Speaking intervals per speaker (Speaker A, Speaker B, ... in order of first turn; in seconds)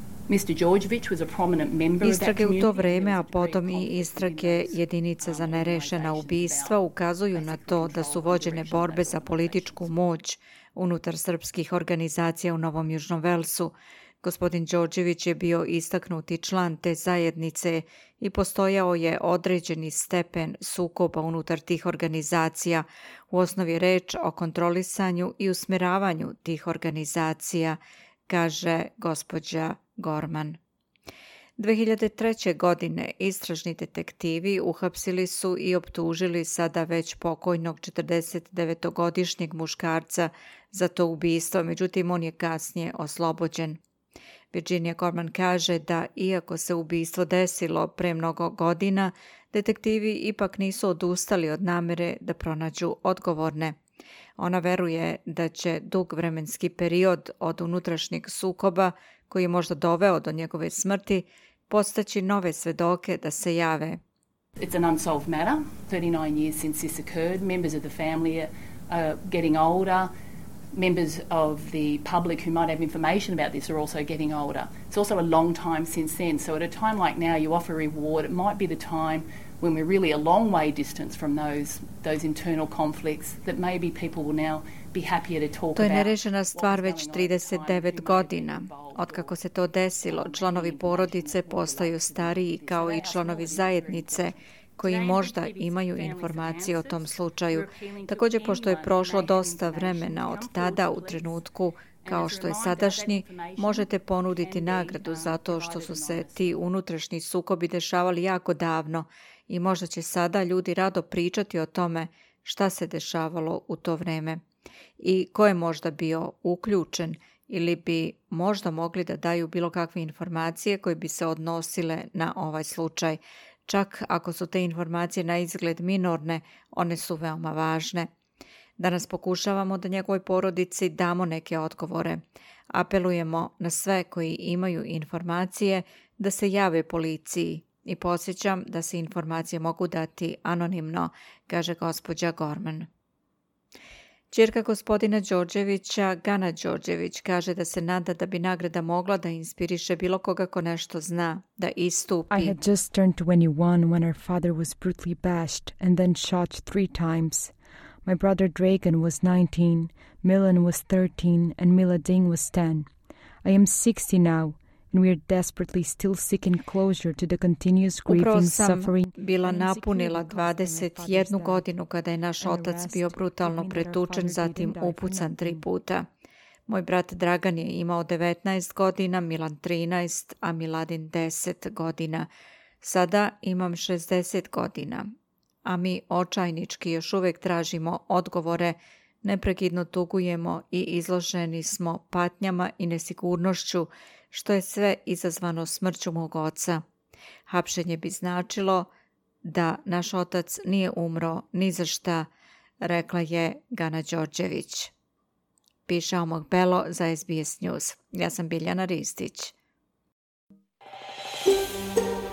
Speaker A: 0.3-10.0, 64.6-70.1, 70.7-89.4, 90.0-101.4, 102.0-106.6
Speaker B: 2.0-30.6, 31.6-43.8, 44.5-53.8, 54.4-64.0, 85.8-114.4, 115.0-128.1, 128.8-142.9, 144.3-152.6, 168.1-176.1, 176.7-182.3, 182.8-185.1, 185.7-196.8, 197.5-198.9, 199.4-202.3, 202.8-204.9, 205.9-209.5
Speaker C: 152.3-157.5, 158.1-162.9, 163.4-171.7, 172.4-175.6